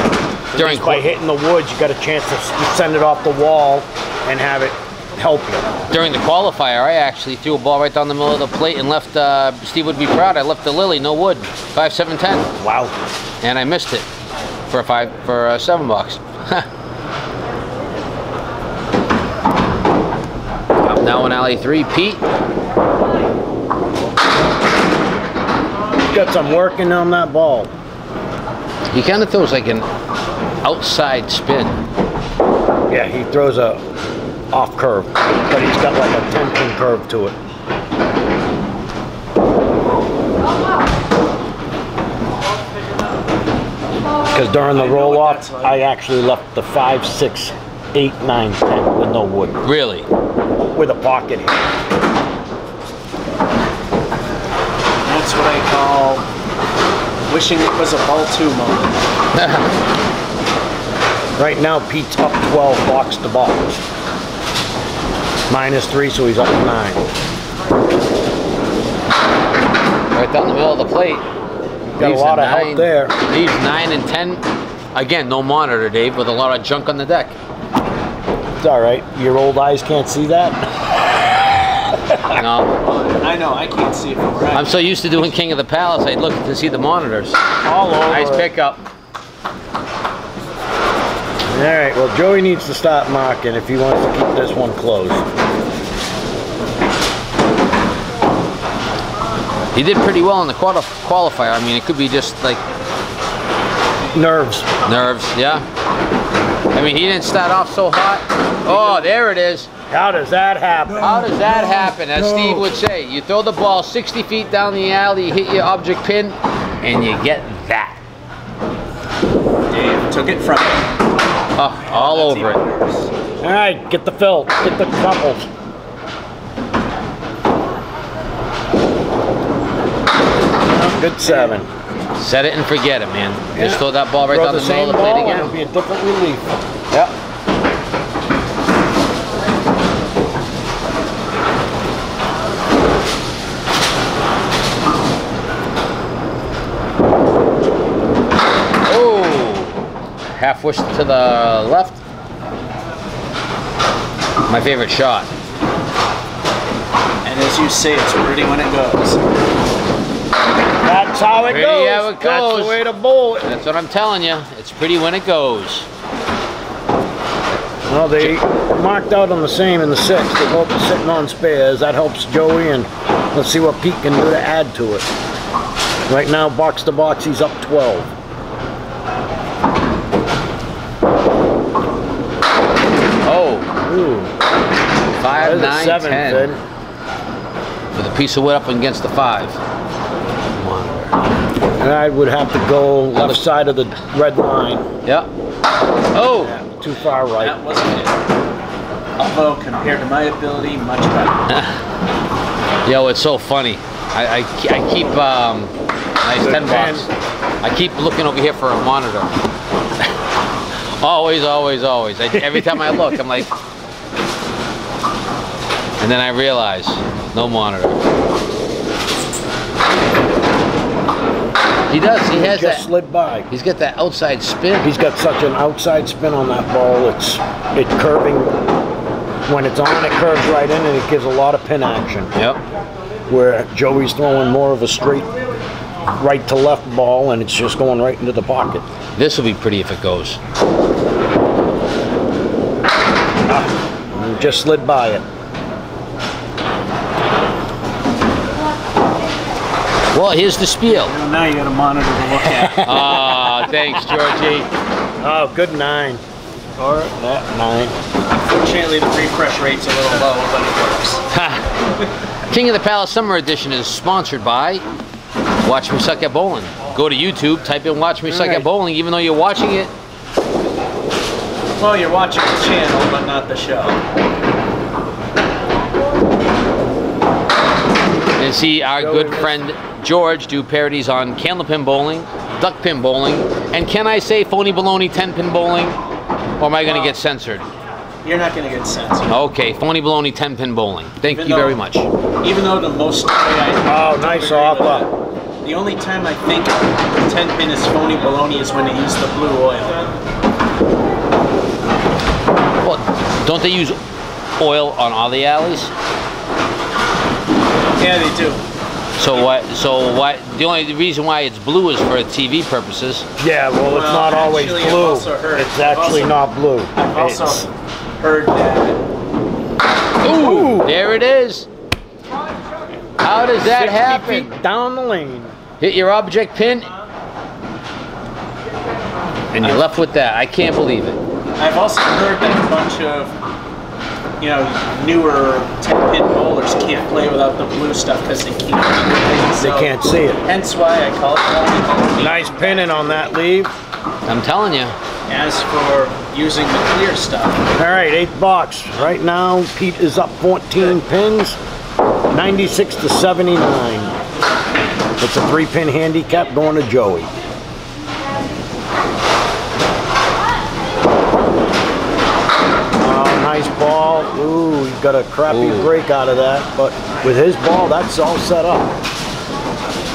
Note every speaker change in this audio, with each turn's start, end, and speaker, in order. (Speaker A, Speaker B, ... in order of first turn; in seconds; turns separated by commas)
Speaker A: 0.5-5.7, Speaker B: 0.5-1.0, Speaker B: 5.9-12.5, Speaker A: 12.6-12.9, Speaker B: 13.4-14.1, Speaker B: 14.7-16.7, Speaker B: 20.9-22.2, Speaker A: 26.1-27.7, Speaker B: 28.9-29.9, Speaker B: 30.6-31.8, Speaker A: 32.9-33.8, Speaker A: 34.5-37.4, Speaker A: 44.3-49.6, Speaker C: 44.7-45.8, Speaker B: 49.6-50.1, Speaker A: 50.7-51.5, Speaker C: 55.0-56.3, Speaker C: 57.3-59.0, Speaker B: 59.3-59.7, Speaker A: 61.4-63.8, Speaker A: 65.5-67.0, Speaker B: 70.1-71.2, Speaker A: 72.0-73.1, Speaker B: 72.0-77.4, Speaker A: 78.6-82.4, Speaker B: 82.3-82.7, Speaker C: 82.8-84.8, Speaker B: 84.5-87.4, Speaker A: 87.6-88.5, Speaker B: 88.1-88.8, Speaker A: 91.5-95.2, Speaker B: 99.7-102.6, Speaker A: 104.1-104.7, Speaker B: 104.8-105.6, Speaker B: 106.7-109.7, Speaker A: 109.9-112.7, Speaker B: 111.0-118.0, Speaker C: 119.7-120.8, Speaker B: 121.5-122.6, Speaker C: 121.8-123.1, Speaker A: 123.4-125.5, Speaker A: 130.7-131.7, Speaker B: 132.2-135.5, Speaker A: 133.5-136.4, Speaker B: 148.8-149.8, Speaker B: 150.3-152.0, Speaker B: 154.5-155.3, Speaker C: 157.2-159.2, Speaker A: 160.8-163.4, Speaker B: 161.5-162.8, Speaker B: 163.4-165.9, Speaker A: 167.9-175.1, Speaker A: 176.1-178.1, Speaker B: 183.2-183.7, Speaker A: 183.8-184.3, Speaker B: 185.2-186.5, Speaker A: 185.2-186.6, Speaker B: 187.9-189.6, Speaker B: 190.6-191.1, Speaker A: 191.8-194.8, Speaker B: 195.0-195.3, Speaker B: 196.1-196.5, Speaker A: 196.2-197.6, Speaker C: 197.3-198.2, Speaker C: 199.2-201.6, Speaker B: 201.5-201.8, Speaker B: 202.8-207.1, Speaker A: 206.4-207.1, Speaker B: 207.6-209.3, Speaker B: 211.0-213.5, Speaker A: 212.3-213.2, Speaker B: 216.0-218.0, Speaker B: 221.9-222.9, Speaker A: 222.3-223.5, Speaker B: 223.5-224.9, Speaker A: 224.8-228.5, Speaker A: 229.4-232.3, Speaker B: 232.3-232.6, Speaker A: 233.3-235.3, Speaker A: 236.2-238.8, Speaker B: 239.2-240.4, Speaker A: 243.5-245.2, Speaker B: 250.1-251.1, Speaker C: 250.8-252.9, Speaker A: 252.4-253.7, Speaker B: 252.8-254.7, Speaker A: 255.2-256.2, Speaker A: 256.8-257.9, Speaker C: 258.3-261.2, Speaker B: 261.3-261.6, Speaker B: 262.5-264.8, Speaker B: 265.6-269.9, Speaker A: 268.3-268.6, Speaker C: 271.8-274.0, Speaker B: 278.4-286.0, Speaker A: 278.9-279.6, Speaker B: 286.6-287.7, Speaker C: 288.2-289.4, Speaker B: 289.3-292.1, Speaker C: 291.2-291.8, Speaker C: 292.4-295.1, Speaker A: 293.9-295.1, Speaker C: 295.6-300.0, Speaker B: 302.8-304.0, Speaker B: 304.6-305.9, Speaker C: 308.0-308.6, Speaker B: 309.2-313.3, Speaker A: 313.4-317.7, Speaker C: 313.8-316.4, Speaker C: 316.9-317.7, Speaker C: 318.2-319.0, Speaker B: 320.2-321.7, Speaker A: 320.2-320.9, Speaker B: 323.2-324.5, Speaker A: 323.6-325.5, Speaker B: 325.8-326.9, Speaker B: 329.5-331.2, Speaker C: 331.6-333.3, Speaker C: 334.4-339.9, Speaker A: 339.6-340.4, Speaker C: 340.4-343.3, Speaker A: 342.2-343.7, Speaker B: 344.3-344.9, Speaker C: 345.3-347.6, Speaker A: 347.8-351.6, Speaker A: 352.3-354.1, Speaker A: 355.2-357.3, Speaker A: 363.0-368.9, Speaker B: 365.5-365.9